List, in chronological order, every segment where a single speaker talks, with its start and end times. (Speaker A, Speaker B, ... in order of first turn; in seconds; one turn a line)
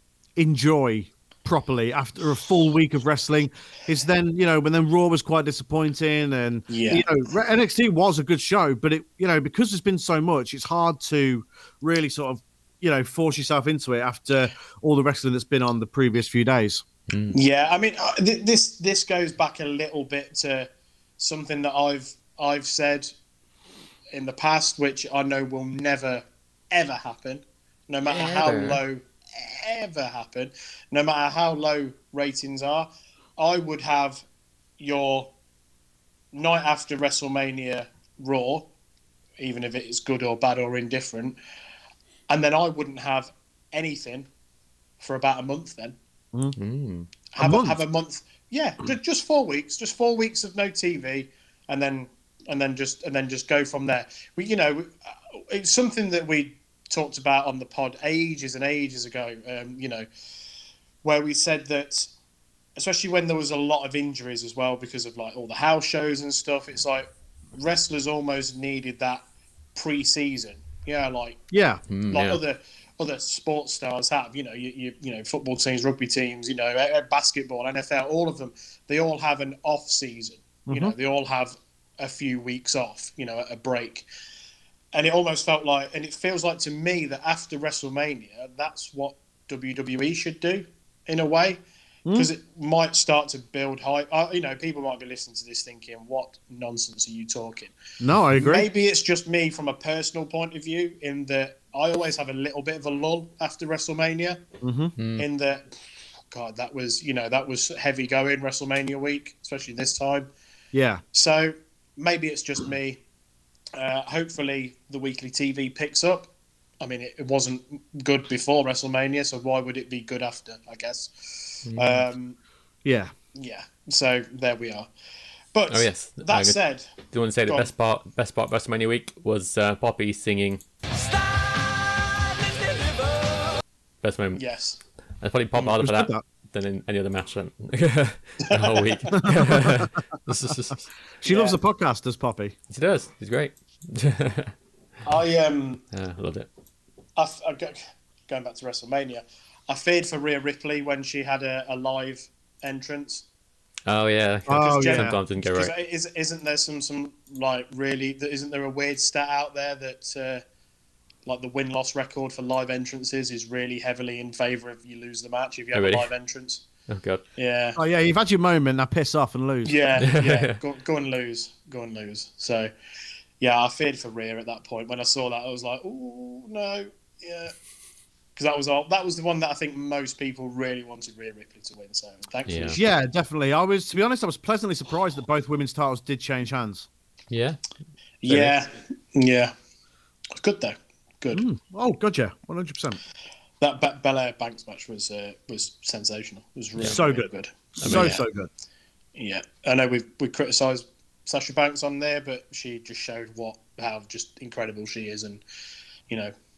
Speaker A: 0.4-16.8
Speaker B: 6.7-7.1
Speaker C: 17.1-17.4
Speaker B: 17.3-23.1
Speaker B: 24.1-34.2
Speaker C: 28.1-28.8
Speaker B: 34.8-35.3
Speaker B: 36.3-38.7
Speaker B: 39.4-41.4
Speaker B: 42.3-44.3
Speaker B: 45.0-46.0
Speaker C: 46.6-47.1
Speaker B: 47.3-60.1
Speaker A: 47.4-47.8
Speaker B: 61.0-62.1
Speaker B: 62.8-71.4
Speaker A: 71.5-71.8
Speaker C: 71.9-72.4
Speaker B: 72.1-84.1
Speaker A: 80.7-80.9
Speaker B: 84.9-91.6
Speaker B: 92.1-97.7
Speaker A: 98.0-98.7
Speaker B: 98.4-104.4
Speaker A: 104.6-104.9
Speaker C: 105.0-105.3
Speaker B: 105.2-105.7
Speaker B: 106.3-110.3
Speaker A: 110.7-111.0
Speaker B: 111.1-113.0
Speaker B: 113.8-122.4
Speaker C: 121.7-122.1
Speaker A: 122.8-123.1
Speaker B: 123.3-124.9
Speaker B: 125.5-126.9
Speaker C: 125.7-126.6
Speaker C: 127.1-130.6
Speaker C: 134.0-134.4
Speaker B: 134.3-134.8
Speaker C: 135.2-140.9
Speaker A: 135.8-136.2
Speaker B: 138.5-139.1
Speaker A: 139.2-139.9
Speaker A: 141.2-142.6
Speaker B: 141.2-141.6
Speaker C: 142.7-144.5
Speaker B: 145.1-145.8
Speaker C: 145.9-146.5
Speaker B: 147.2-153.3
Speaker C: 153.9-155.7
Speaker A: 154.5-155.1
Speaker B: 154.5-160.4
Speaker B: 161.3-166.7
Speaker C: 165.7-166.1
Speaker C: 166.9-167.2
Speaker B: 167.4-167.8
Speaker A: 167.8-169.8
Speaker B: 169.7-172.7
Speaker C: 170.0-170.6
Speaker B: 173.4-177.5
Speaker B: 178.4-182.8
Speaker C: 182.5-182.8
Speaker A: 182.8-186.9
Speaker C: 187.3-187.7
Speaker B: 188.2-189.5
Speaker C: 188.3-188.6
Speaker B: 190.4-191.4
Speaker A: 191.3-193.0
Speaker B: 193.6-198.2
Speaker A: 196.8-198.5
Speaker C: 197.8-198.1
Speaker B: 199.2-205.4